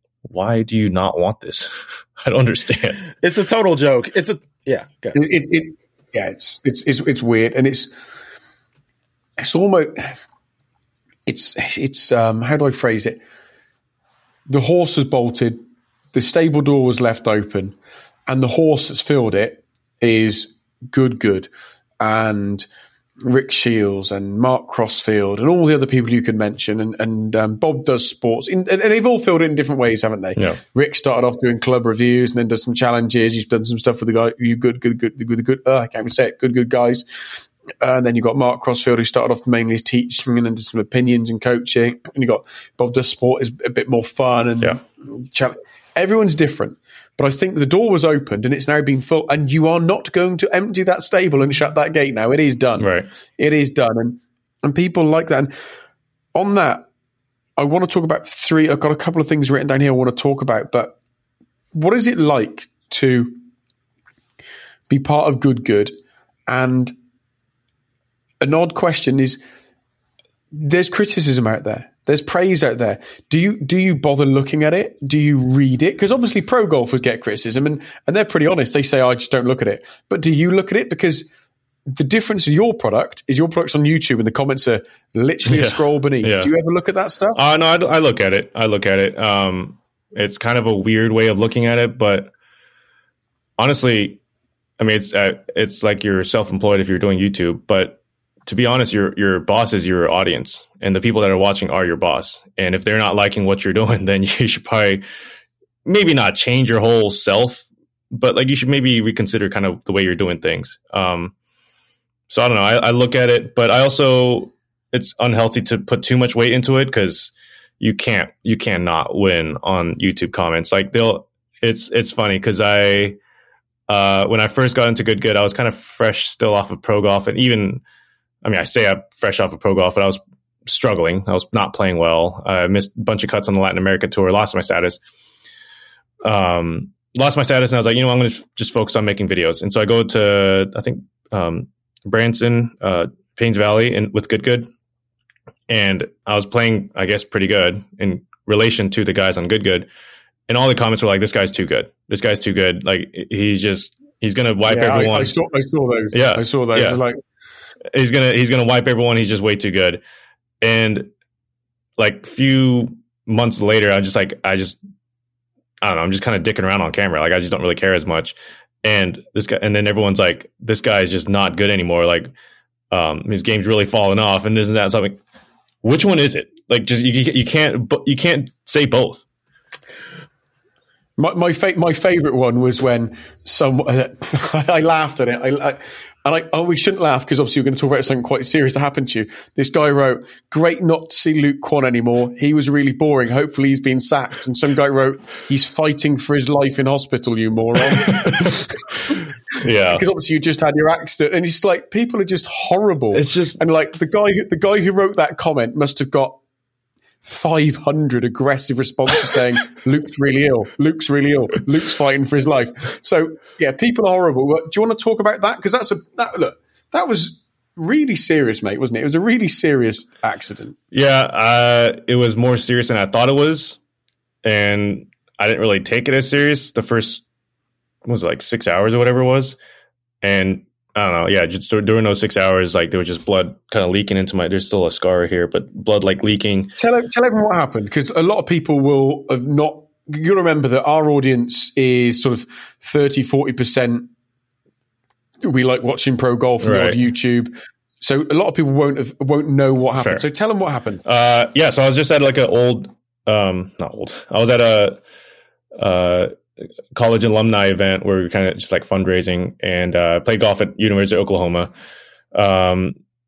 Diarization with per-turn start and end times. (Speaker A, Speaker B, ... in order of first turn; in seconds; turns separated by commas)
Speaker A: 0.2-3.0, Speaker B: 3.2-5.2, Speaker C: 5.1-8.0, Speaker C: 9.4-10.2, Speaker C: 11.3-13.2, Speaker C: 14.5-15.6, Speaker C: 16.1-17.8, Speaker C: 18.3-22.6, Speaker C: 23.2-55.5, Speaker A: 52.8-53.1, Speaker C: 56.4-56.9, Speaker C: 57.6-61.0, Speaker C: 61.7-63.4, Speaker C: 64.9-65.9, Speaker C: 66.5-66.9, Speaker C: 68.4-69.4, Speaker C: 70.5-81.3, Speaker C: 81.9-87.4, Speaker A: 85.5-86.5, Speaker A: 87.3-92.3, Speaker A: 93.6-94.2, Speaker A: 94.8-105.0, Speaker A: 105.8-111.3, Speaker A: 112.3-123.2, Speaker A: 123.9-127.8, Speaker A: 128.4-135.0, Speaker A: 136.2-144.7, Speaker A: 145.7-149.9, Speaker A: 150.5-155.3, Speaker C: 154.7-157.2, Speaker A: 156.1-157.0, Speaker A: 157.9-160.0, Speaker A: 160.6-161.1, Speaker A: 162.0-164.8, Speaker A: 165.8-172.3, Speaker A: 172.9-175.2, Speaker A: 175.8-179.2, Speaker C: 181.2-206.4, Speaker A: 198.1-200.0, Speaker A: 203.1-203.6, Speaker C: 207.2-220.8, Speaker A: 220.9-223.8, Speaker A: 224.4-227.2, Speaker A: 228.1-229.6, Speaker A: 230.2-236.7, Speaker C: 236.8-244.1, Speaker C: 245.4-251.0, Speaker A: 246.6-247.0, Speaker A: 249.9-250.2, Speaker A: 251.1-255.0, Speaker A: 255.8-256.3, Speaker A: 256.9-261.7, Speaker A: 262.3-263.0